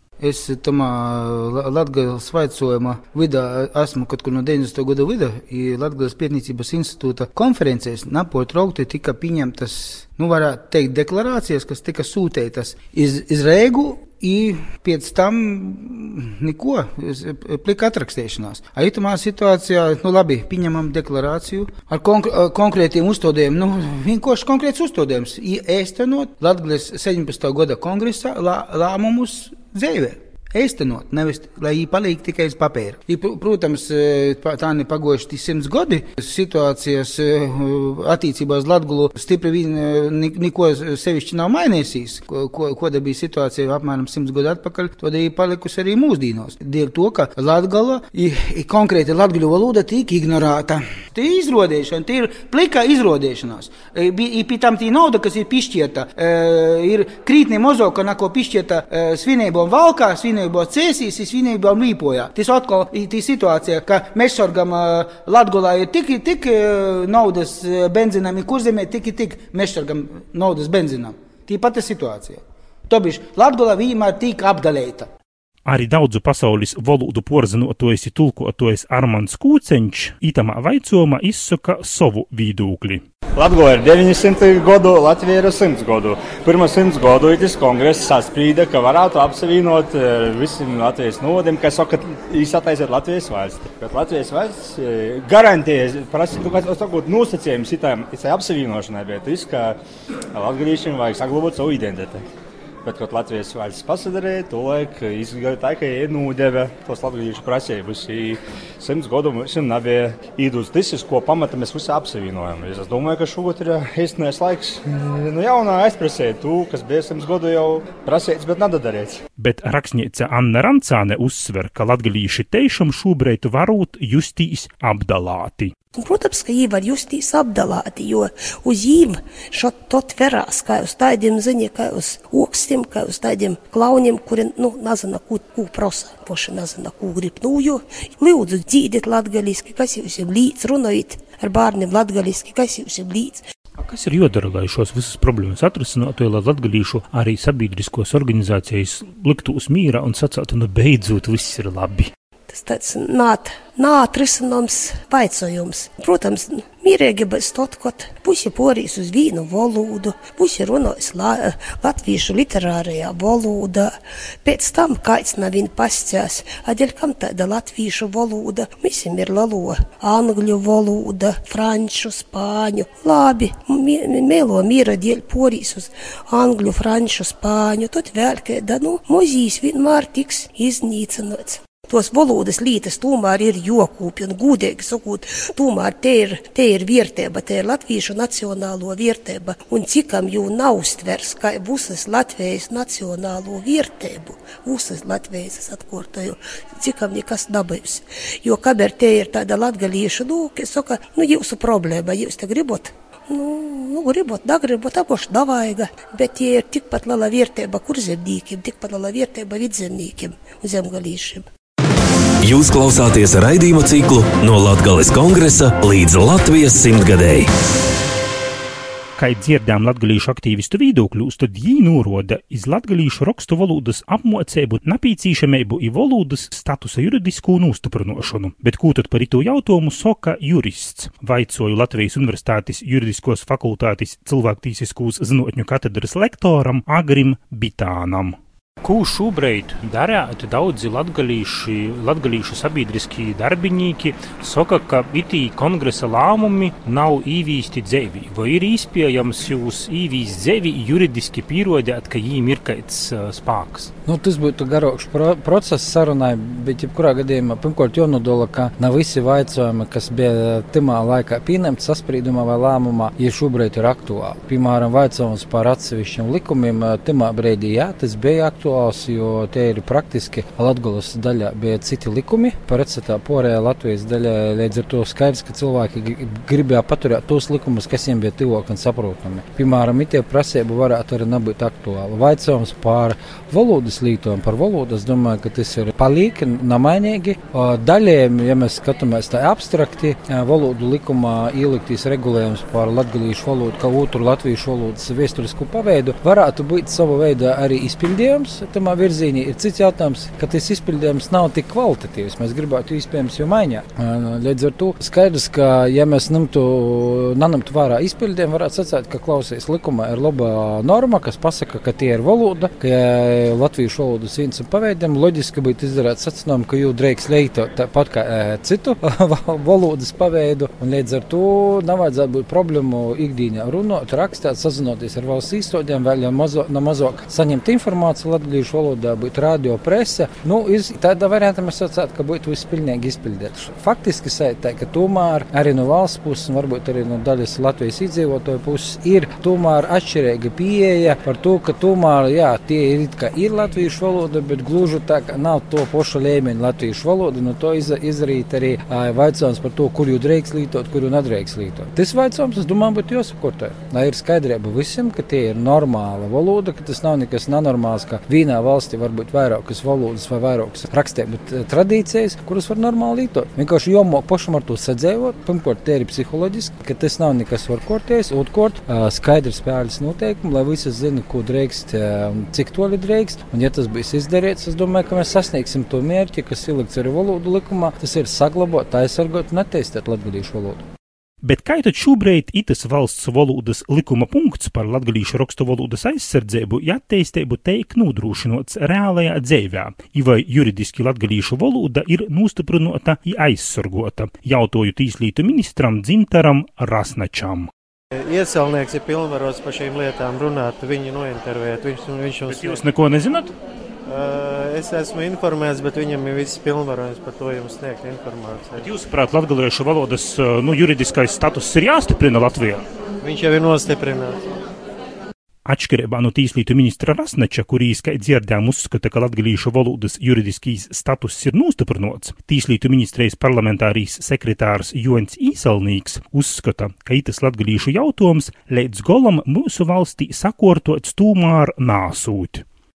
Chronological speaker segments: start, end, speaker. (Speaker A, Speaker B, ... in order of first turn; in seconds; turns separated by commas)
Speaker A: 0.2-75.1, Speaker B: 75.7-83.0, Speaker C: 83.3-99.8, Speaker C: 100.3-102.2, Speaker C: 102.8-119.2, Speaker B: 119.4-125.7, Speaker D: 126.0-143.4, Speaker B: 143.8-152.1, Speaker D: 152.5-211.5, Speaker E: 212.4-217.5, Speaker B: 219.2-253.9, Speaker F: 254.0-380.8, Speaker B: 381.4-397.7, Speaker G: 398.1-402.8, Speaker B: 402.5-403.5, Speaker G: 404.1-408.9, Speaker B: 408.8-412.9, Speaker G: 413.2-414.6, Speaker B: 415.7-432.6